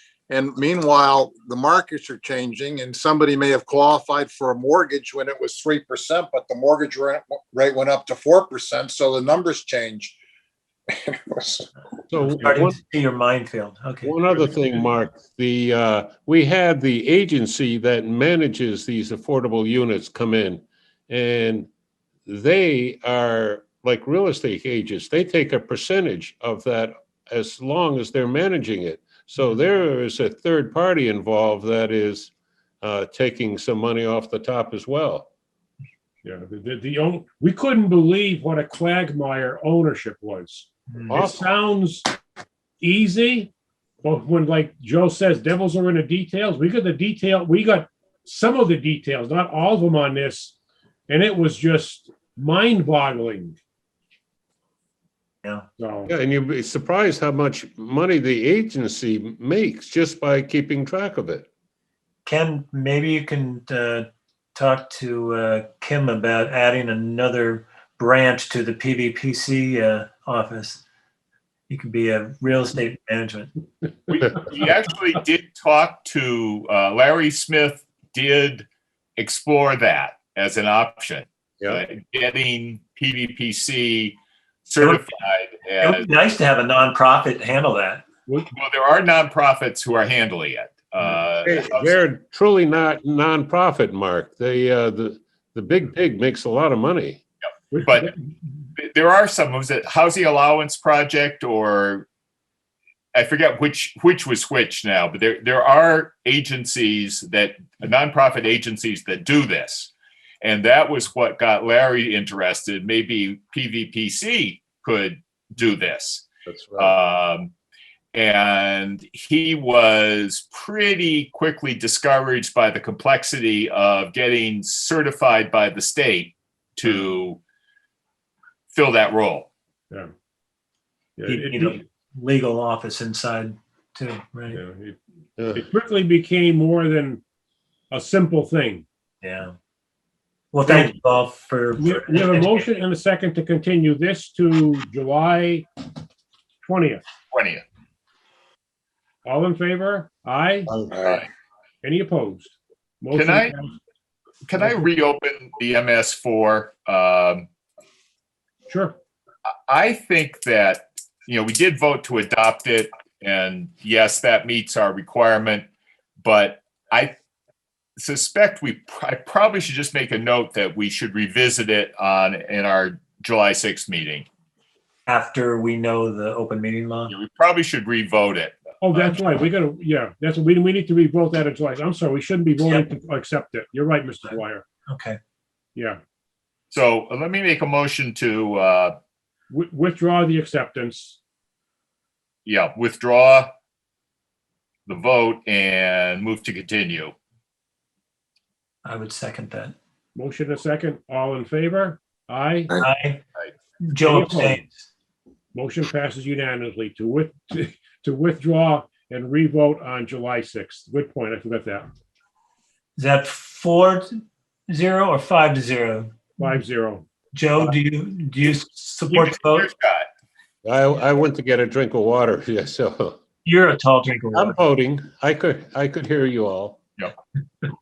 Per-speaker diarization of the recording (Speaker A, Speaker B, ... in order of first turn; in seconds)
Speaker A: 0.3-10.2, 11.0-11.7, 150.9-151.2
Speaker B: 12.1-12.8, 14.0-21.7, 22.3-35.3, 41.1-41.4, 56.1-61.5, 91.5-97.2, 116.5-117.0, 135.4-135.6, 220.7-223.2, 224.3-226.8
Speaker C: 12.2-14.7, 62.3-70.8, 71.7-73.5, 84.8-85.1, 85.8-88.0, 131.3-134.6, 139.2-139.6, 140.5-142.7, 175.1-177.1, 182.6-182.8, 184.9-185.2, 198.8-199.7, 202.8-203.2, 203.8-204.8, 213.0-216.4, 217.3-219.7, 223.4-224.6
Speaker D: 36.2-42.2, 42.8-43.5, 44.0-50.5, 51.1-53.6, 55.8-56.1, 97.7-98.2, 131.2-131.8, 134.5-135.0, 135.5-137.2, 137.9-138.8, 140.7-141.0, 141.8-145.7, 146.6-147.0, 149.2-150.7, 151.8-153.8, 154.6-154.9, 158.7-159.0, 178.8-184.7, 185.8-186.0, 189.5-191.2, 200.2-202.8, 204.0-204.6, 205.5-211.9, 216.4-217.1
Speaker E: 74.1-78.7, 79.2-84.2, 84.7-86.1, 88.5-92.0, 97.7-98.2, 98.8-102.1, 103.2-109.9, 110.4-117.5, 118.1-127.4, 128.7-129.5, 147.3-147.6, 153.1-153.6, 154.5-157.5, 159.7-165.7, 166.2-167.1, 168.0-174.3, 177.1-179.1, 186.7-189.0, 192.4-193.5, 194.9-197.1, 219.1-220.1